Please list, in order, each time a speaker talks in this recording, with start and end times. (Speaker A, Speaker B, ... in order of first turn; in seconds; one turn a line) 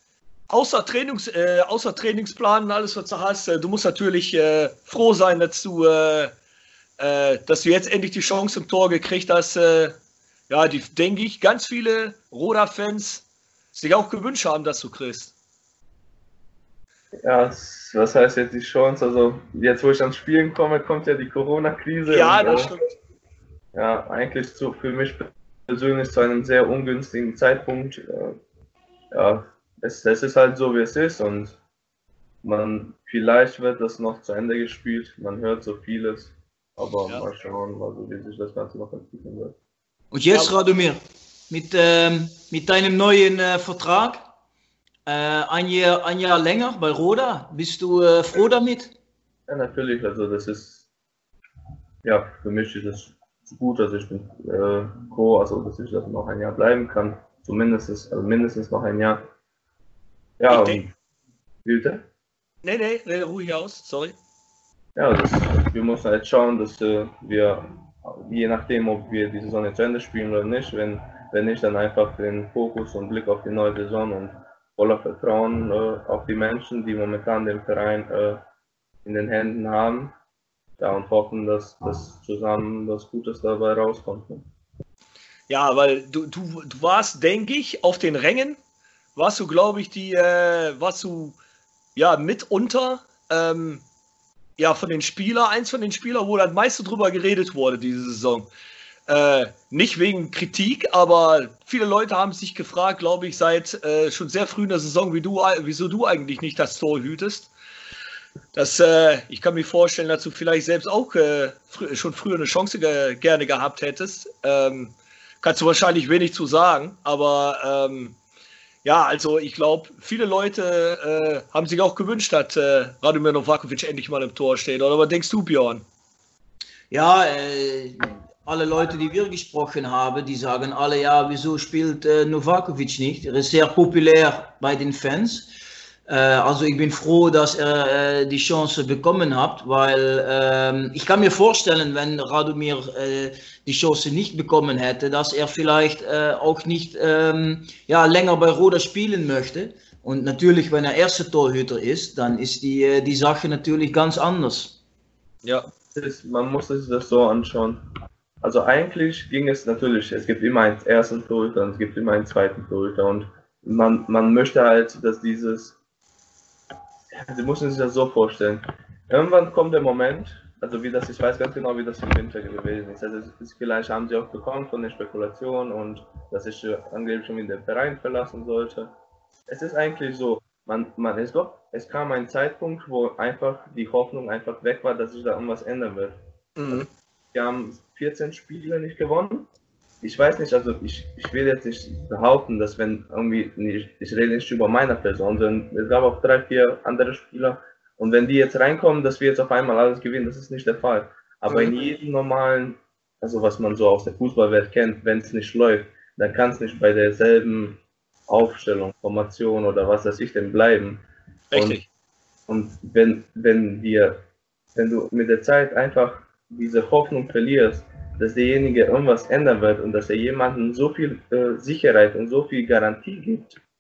Speaker A: 0.5-6.3
Speaker A: 7.0-9.9
Speaker A: 10.5-15.3
Speaker B: 17.2-22.8
Speaker A: 22.1-22.8
Speaker B: 23.7-28.4
Speaker B: 29.1-31.6
Speaker B: 32.4-39.5
Speaker C: 40.1-44.3
Speaker C: 45.1-48.9
Speaker B: 49.5-50.9
Speaker B: 52.0-59.3
Speaker B: 60.4-60.9
Speaker A: 60.5-60.8
Speaker B: 61.6-62.0
Speaker A: 62.6-64.2
Speaker B: 65.0-78.4
Speaker B: 79.0-80.1
Speaker B: 80.8-84.5
Speaker A: 85.5-88.6
Speaker A: 89.2-91.4
Speaker A: 92.0-93.8
Speaker A: 94.6-98.5
Speaker A: 99.1-107.5
Speaker A: 108.5-118.2
Speaker A: 118.8-125.8
Speaker C: 126.9-135.5
Speaker C: 136.1-154.8
Speaker B: 155.9-157.8
Speaker B: 158.4-165.8
Speaker B: 167.1-178.9
Speaker B: 179.5-189.5
Speaker A: 186.6-186.9
Speaker B: 190.0-211.8
Speaker A: 201.5-201.9
Speaker A: 211.5-211.8
Speaker B: 212.5-214.2
Speaker B: 214.7-223.6